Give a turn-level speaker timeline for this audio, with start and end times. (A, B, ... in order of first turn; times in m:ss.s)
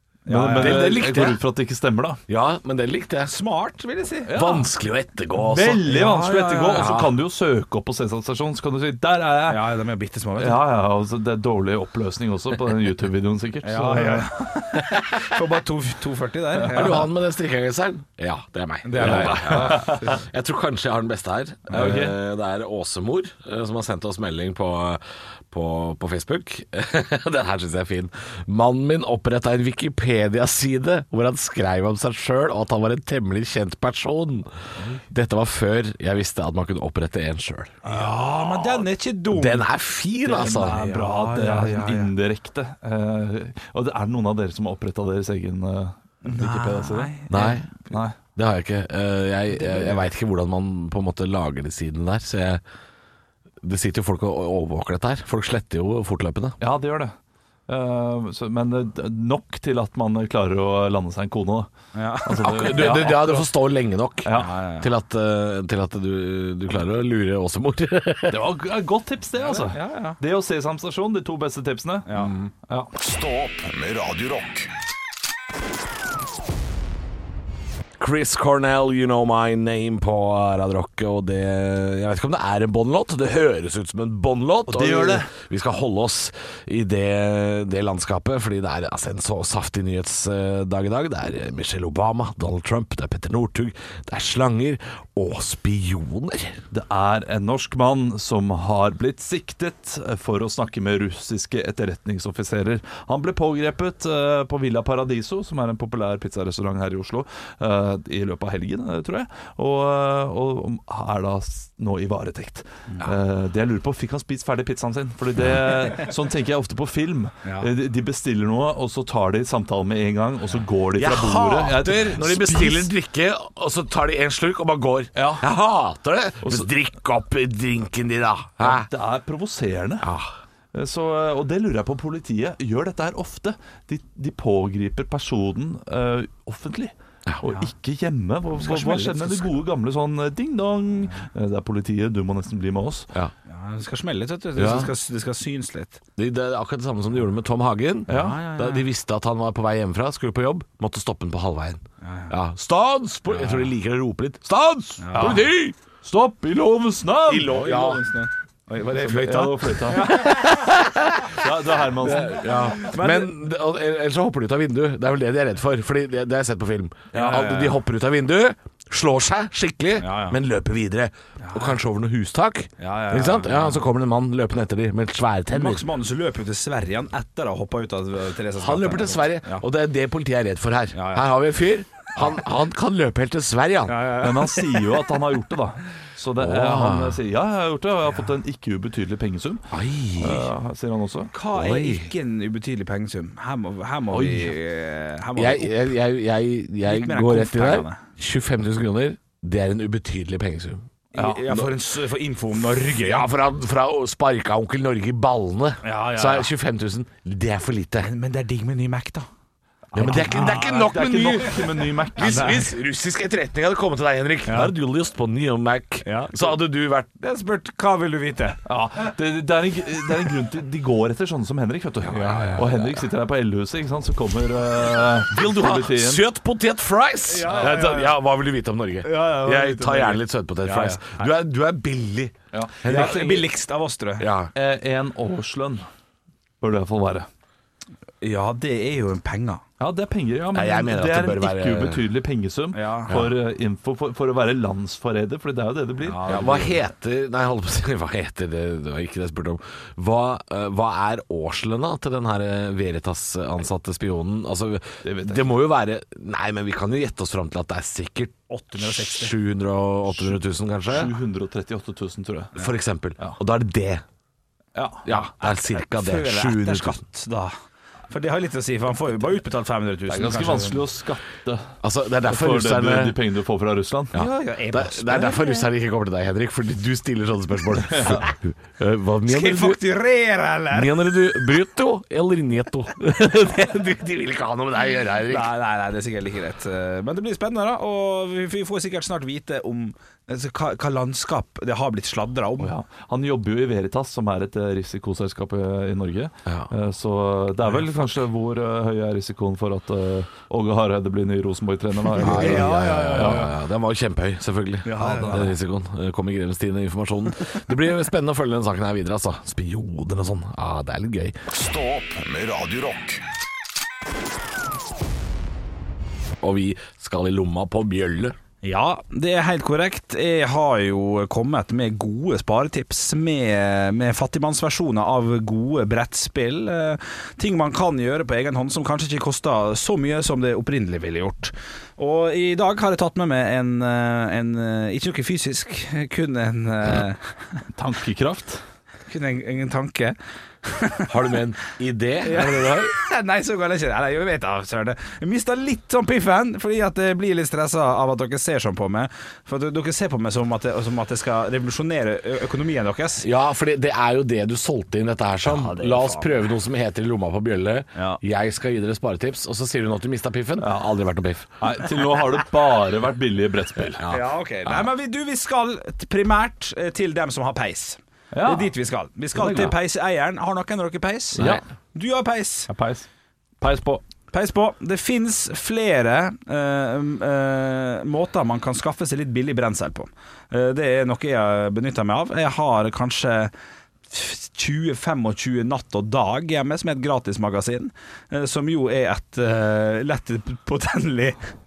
0:00.2-0:01.0 A
0:00.3-0:02.2 B
0:00.6-0:01.4 C
0:02.3-0:03.3 C
0:03.2-0:04.3 A
0:04.3-0:04.7 B
0:04.3-0:05.9 C
0:05.4-0:09.6 B
0:05.8-0:07.0 A
0:06.7-0:07.1 C
0:09.5-0:10.6 A
0:10.4-0:14.4 B
0:13.6-0:17.1 A
0:16.7-0:34.5 C
0:18.8-0:20.2 A
0:19.0-0:20.2 B
0:21.7-0:22.2 B
0:35.1-0:37.8 C
0:37.8-0:39.7 A
0:37.9-0:38.8 B
0:39.3-0:40.9 C
0:40.2-0:48.2 B
0:40.6-0:42.1 A
0:46.2-0:47.6 A
0:47.3-0:47.7 C
0:48.3-0:52.6 C
0:49.6-0:50.0 A
0:53.6-0:56.6 C
0:56.6-0:57.1 B
0:57.7-1:01.7 B
1:01.9-1:02.9 A
1:02.2-1:03.4 B
1:02.4-1:08.4 C
1:04.2-1:04.5 B
1:04.3-1:04.9 A
1:08.3-1:12.1 B
1:09.4-1:10.2 A
1:12.0-1:12.3 A
1:12.2-1:12.5 C
1:13.0-1:14.7 D
1:18.0-1:36.6 C
1:24.7-1:25.3 B
1:36.7-2:02.9 B
1:57.4-1:57.7 A
2:00.9-2:08.9 C
2:05.1-2:05.4 B
2:06.4-2:06.7 B
2:08.6-2:10.1 B
2:10.0-2:10.3 C
2:10.7-2:23.1 B
2:17.4-2:17.7 A
2:18.6-2:19.5 A
2:23.5-2:26.0 A
2:24.6-2:24.9 C
2:26.2-2:35.8 C
2:28.1-2:28.4 B
2:28.1-2:28.8 A
2:32.0-2:32.3 A
2:33.3-2:33.6 A
2:35.0-2:35.4 A
2:35.1-2:35.5 B
2:36.0-2:37.7 B
2:37.3-2:40.5 A
2:37.4-2:38.0 C
2:38.9-2:40.3 B
2:40.0-2:41.4 C
2:41.3-2:42.6 B
2:42.0-2:55.8 C
2:42.8-2:43.3 A
2:47.1-2:47.6 B
2:47.1-2:47.8 A
2:50.0-2:50.4 A
2:51.4-2:51.7 A
2:52.8-2:53.8 A
2:55.5-2:59.6 A
2:58.6-3:04.0 C
3:00.9-3:01.3 A
3:03.9-3:04.9 A
3:04.2-3:09.7 B
3:06.4-3:07.2 C
3:09.7-3:10.5 C
3:10.2-3:11.3 B
3:11.3-3:15.9 A
3:11.5-3:12.1 C
3:14.1-3:14.5 B
3:15.4-3:20.8 C
3:16.8-3:18.0 A
3:21.1-3:23.3 A
3:22.9-3:28.1 C
3:25.8-3:26.5 A
3:28.0-3:29.3 A
3:29.9-3:37.1 C
3:29.9-3:32.6 B
3:30.0-3:30.8 A
3:32.2-3:32.6 A
3:34.4-3:34.7 A
3:36.0-3:36.6 A
3:37.2-3:38.6 A
3:38.6-3:46.2 B
3:42.0-3:43.1 C
3:42.3-3:42.6 A
3:45.3-3:53.4 C
3:47.3-3:48.2 A
3:49.0-3:51.3 A
3:52.5-3:53.4 B
3:52.8-3:54.2 A
3:54.2-3:54.5 C
3:54.5-3:55.8 B
3:56.6-3:57.3 B
3:58.2-3:59.6 A
3:59.8-4:06.5 B
4:00.5-4:02.0 C
4:02.7-4:03.2 A
4:03.1-4:03.3 C
4:06.0-4:06.8 A
4:06.3-4:21.1 C
4:15.0-4:15.5 B
4:18.5-4:19.4 A
4:20.1-4:22.5 B
4:22.6-4:24.0 C
4:24.7-4:25.1 B
4:25.0-4:27.0 C
4:25.1-4:27.5 A
4:28.1-4:30.8 A
4:30.1-4:34.1 B
4:31.8-4:33.2 C
4:34.1-4:35.6 A
4:34.1-4:39.8 C
4:37.9-4:38.2 B
4:39.3-4:41.1 A
4:40.7-4:45.5 C
4:45.3-4:52.7 A
4:52.6-5:03.4 B
5:02.1-5:03.5 A
5:02.2-5:11.4 C
5:04.8-5:05.5 A
5:05.0-5:05.5 B
5:11.5-5:13.2 D
5:16.4-5:18.3 C
5:18.6-5:37.4 A
5:37.7-5:38.6 B
5:39.1-5:41.1 A
5:41.1-5:42.9 C
5:42.2-5:53.3 A
5:53.2-6:01.5 C
5:55.4-5:56.3 A
6:00.6-6:00.9 B
6:01.6-6:04.1 B
6:03.9-6:04.9 C
6:04.1-6:11.4 A
6:08.3-6:08.7 B
6:09.3-6:09.7 B
6:11.3-6:11.6 C
6:11.9-6:12.7 A
6:12.7-6:13.0 B
6:13.6-6:14.0 B
6:14.3-6:23.5 A
6:24.1-6:31.4 A